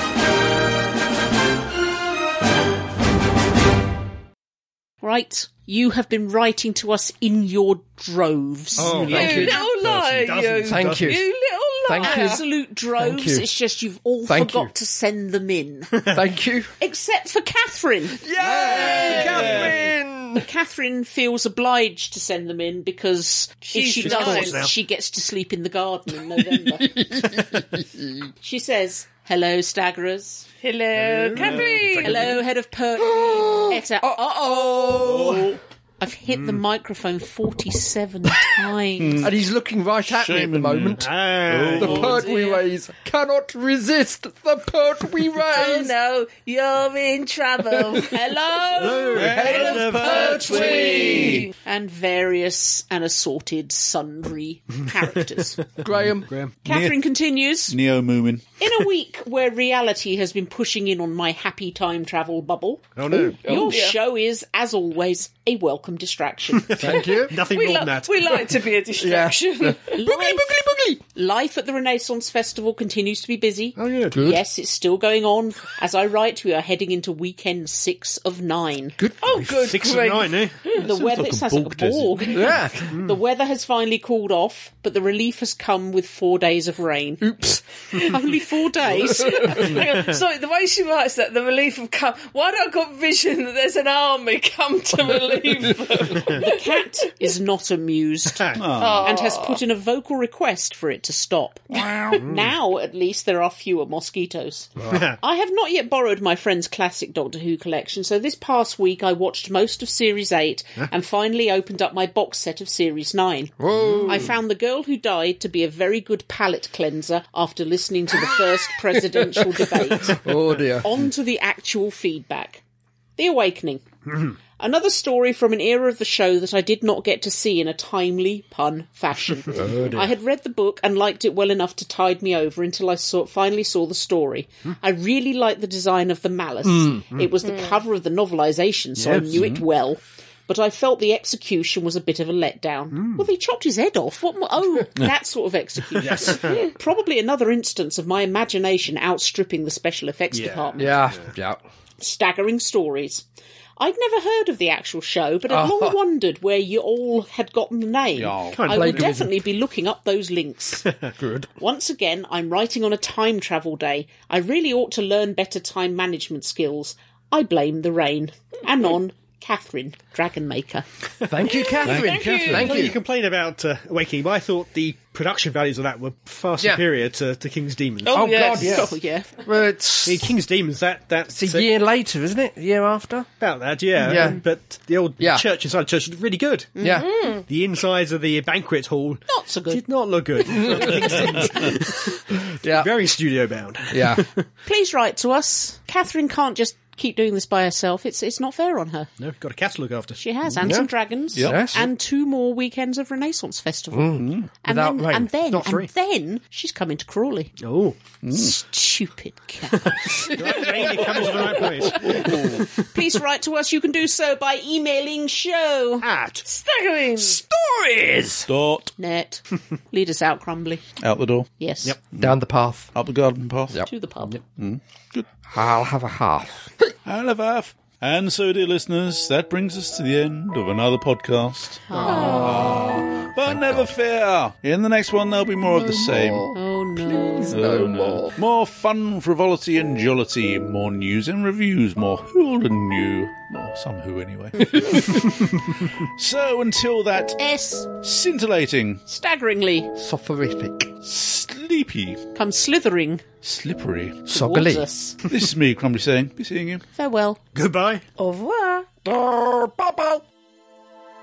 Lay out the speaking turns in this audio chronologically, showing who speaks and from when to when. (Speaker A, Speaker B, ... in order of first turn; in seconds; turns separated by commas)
Speaker A: 5.0-9.0, Speaker B: 8.8-11.2, Speaker C: 8.8-9.4, Speaker D: 8.9-9.7, Speaker E: 9.1-12.4, Speaker D: 10.7-11.2, Speaker D: 11.8-12.4, Speaker A: 12.0-16.1, Speaker D: 13.0-13.5, Speaker D: 14.3-14.7, Speaker D: 16.1-16.7, Speaker A: 16.8-18.2, Speaker D: 18.2-20.5, Speaker B: 18.4-19.8, Speaker C: 18.7-19.8, Speaker A: 20.4-27.1, Speaker E: 23.6-24.7, Speaker B: 24.0-24.7, Speaker D: 26.4-28.3, Speaker A: 28.4-30.5, Speaker E: 30.6-32.3, Speaker B: 30.9-32.4, Speaker C: 31.4-31.6, Speaker A: 32.0-35.4, Speaker D: 33.0-35.6, Speaker C: 35.0-35.6, Speaker A: 36.0-39.3, Speaker B: 36.3-36.6, Speaker C: 39.0-39.3, Speaker D: 39.2-41.1, Speaker C: 40.1-42.2, Speaker B: 41.0-42.3, Speaker D: 41.7-45.9, Speaker E: 45.5-49.0, Speaker A: 48.0-49.4, Speaker B: 48.8-50.7, Speaker C: 49.1-51.5, Speaker D: 49.2-51.5, Speaker E: 50.2-51.5, Speaker A: 51.6-55.7, Speaker D: 55.8-56.3, Speaker B: 56.3-56.5, Speaker A: 56.6-57.8, Speaker C: 56.7-57.0, Speaker C: 57.7-58.5, Speaker A: 58.6-67.0, Speaker B: 63.0-63.4, Speaker D: 63.1-63.8, Speaker E: 63.5-64.0, Speaker B: 66.6-68.6, Speaker D: 66.8-67.4, Speaker E: 67.2-70.0, Speaker D: 69.0-71.0, Speaker A: 69.9-70.6, Speaker A: 71.1-79.0, Speaker B: 73.8-74.2, Speaker D: 74.1-74.4, Speaker D: 79.0-80.0, Speaker E: 79.2-80.9, Speaker B: 79.5-80.6, Speaker C: 80.7-82.6, Speaker A: 80.7-87.3, Speaker D: 82.3-82.9, Speaker D: 87.2-88.2, Speaker A: 87.9-90.0, Speaker E: 89.1-96.7, Speaker D: 89.2-89.6, Speaker A: 96.3-122.6, Speaker B: 98.3-98.7, Speaker C: 98.6-99.1, Speaker E: 98.7-99.6, Speaker C: 101.7-102.2, Speaker B: 102.2-102.5, Speaker B: 104.9-105.2, Speaker D: 113.6-114.3, Speaker D: 118.9-120.9, Speaker A: 123.2-123.9, Speaker A: 124.6-151.1, Speaker D: 129.5-130.0, Speaker B: 129.6-130.1, Speaker D: 136.6-137.1, Speaker E: 137.4-137.8, Speaker C: 139.1-139.6, Speaker B: 139.1-139.4, Speaker B: 142.9-143.3, Speaker B: 146.0-146.7, Speaker B: 150.3-151.2, Speaker D: 150.8-151.6, Speaker A: 152.0-153.2, Speaker A: 153.8-160.9, Speaker D: 155.5-156.0, Speaker C: 158.2-158.6, Speaker B: 158.5-159.1, Speaker D: 158.7-159.4, Speaker D: 161.2-161.5, Speaker A: 161.6-170.9, Speaker D: 171.3-173.0, Speaker E: 171.6-172.7, Speaker C: 171.8-172.9, Speaker B: 172.4-178.4, Speaker D: 176.6-176.8, Speaker E: 178.0-178.9, Speaker D: 178.1-180.4, Speaker A: 178.6-179.4, Speaker B: 180.1-181.7, Speaker D: 181.3-183.3, Speaker B: 183.4-186.8, Speaker D: 184.0-184.4, Speaker A: 184.1-184.4, Speaker D: 185.2-185.4, Speaker A: 186.8-187.1, Speaker D: 186.8-187.1, Speaker E: 186.8-187.5, Speaker B: 187.4-194.4, Speaker A: 189.3-189.8, Speaker D: 190.5-193.0, Speaker D: 193.9-194.3, Speaker A: 194.7-199.1, Speaker B: 199.2-200.7, Speaker A: 200.2-207.6, Speaker D: 200.6-201.9, Speaker C: 201.3-201.9, Speaker D: 203.9-205.9, Speaker C: 204.2-204.4, Speaker B: 207.6-208.0, Speaker C: 208.2-208.6, Speaker A: 208.3-210.6, Speaker D: 210.0-212.5, Speaker B: 210.0-212.7, Speaker A: 211.9-216.1, Speaker C: 212.0-212.6, Speaker B: 216.0-216.4, Speaker E: 216.4-217.4, Speaker D: 217.2-218.5, Speaker C: 218.5-218.9, Speaker A: 219.0-220.8, Speaker C: 221.0-221.5, Speaker A: 221.6-222.0, Speaker D: 222.2-222.9, Speaker C: 222.9-223.8, Speaker D: 223.7-224.3, Speaker A: 223.9-224.4, Speaker C: 224.4-225.3, Speaker D: 225.5-226.9, Speaker C: 227.1-236.5, Speaker A: 231.9-232.8, Speaker B: 231.9-232.8, Speaker D: 232.0-234.0, Speaker D: 235.7-238.4, Speaker A: 236.5-237.6, Speaker C: 237.5-247.4, Speaker A: 247.4-247.9, Speaker C: 248.0-249.0, Speaker A: 249.1-249.9, Speaker D: 250.0-250.9, Speaker C: 251.0-252.2, Speaker A: 252.3-253.2, Speaker C: 253.4-254.2, Speaker D: 254.3-254.9, Speaker A: 254.3-255.2, Speaker C: 255.3-256.8, Speaker A: 257.0-257.4, Speaker B: 257.6-258.1, Speaker E: 258.2-258.9, Speaker D: 259.0-260.2